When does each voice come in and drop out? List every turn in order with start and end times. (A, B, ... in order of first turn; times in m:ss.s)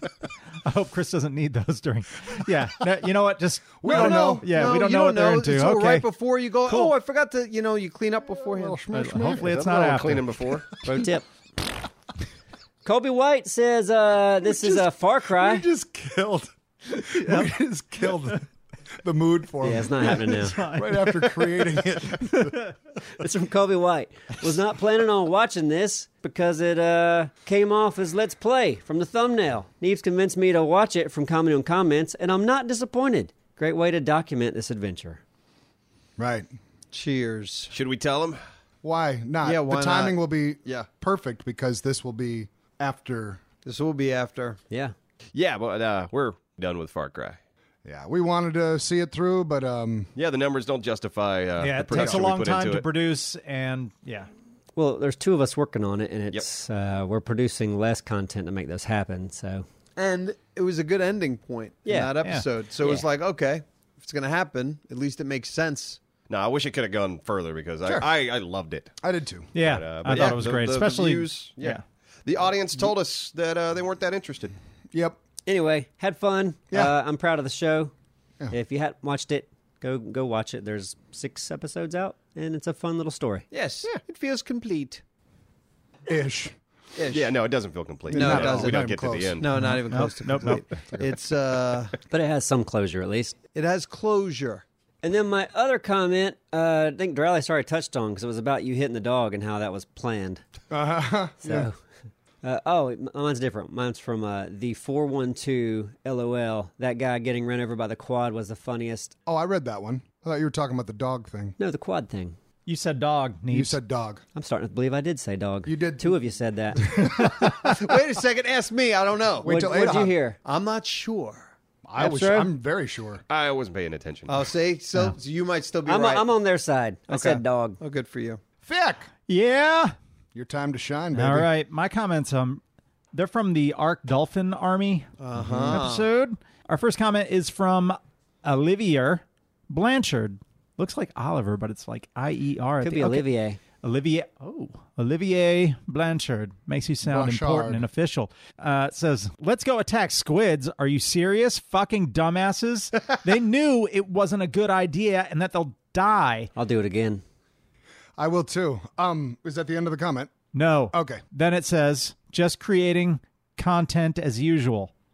0:00.6-0:06.0 A
0:03.8-0:04.5 B
0:03.8-0:08.8 C
0:06.6-0:06.9 A
0:08.3-0:09.5 B
0:08.9-0:10.3 A
0:09.3-0:10.7 D
0:10.8-0:11.2 E
0:12.8-0:15.6 E
0:14.4-0:18.4 B
0:17.1-0:18.4 A
0:19.0-0:22.6 B
0:19.6-0:20.6 E
0:20.0-0:22.7 A
0:23.1-0:35.2 E
0:36.2-0:36.5 B
0:36.9-0:37.7 C
0:37.7-0:38.4 D
0:38.8-0:43.4 B
0:39.4-0:40.2 C
0:43.6-0:44.6 C
0:44.7-0:44.9 E
0:45.3-0:47.4 D
0:47.8-0:50.1 B
0:50.2-0:52.8 D
0:51.6-0:54.3 A
0:51.9-0:52.2 B
0:54.8-0:59.6 E
1:00.0-1:06.0 C
1:01.8-1:02.1 E
1:02.0-1:02.5 A
1:06.3-1:08.9 D
1:09.0-1:09.5 B
1:09.5-1:11.8 A
1:09.6-1:14.5 D
1:10.1-1:10.5 C
1:14.9-1:15.2 B
1:15.4-1:17.9 E
1:18.5-1:23.4 E
1:23.5-1:25.0 C
1:26.0-1:26.5 B
1:27.0-1:27.3 C
1:27.1-1:29.5 D
1:28.1-1:29.4 B
1:28.1-1:28.9 C
1:29.4-1:32.0 C
1:29.5-1:30.7 A
1:32.1-1:33.4 E
1:33.5-1:34.6 C
1:35.0-1:40.4 E
1:40.7-1:41.7 B
1:41.4-1:41.7 E
1:42.4-1:49.1 E
1:49.3-1:51.6 B
1:51.6-1:52.4 E
1:52.6-1:53.8 A
1:53.5-1:54.2 B
1:54.3-1:57.2 E
1:55.6-1:56.2 B
1:56.8-1:57.7 B
1:57.5-1:59.8 C
1:59.4-2:00.1 B
1:59.4-2:00.4 E
2:00.4-2:01.5 C
2:01.8-2:03.2 B
2:02.0-2:02.5 E
2:03.3-2:04.5 D
2:04.3-2:06.2 C
2:05.8-2:07.8 E
2:07.1-2:08.4 C
2:08.6-2:09.1 B
2:09.3-2:09.9 A
2:10.3-2:11.5 B
2:11.1-2:12.6 A
2:13.1-2:23.3 A
2:15.2-2:16.1 C
2:15.5-2:15.8 B
2:22.8-2:23.6 E
2:23.8-2:36.5 A
2:27.0-2:27.8 B
2:36.6-2:37.2 E
2:38.2-2:40.3 B
2:40.5-2:44.9 A
2:40.9-2:41.2 B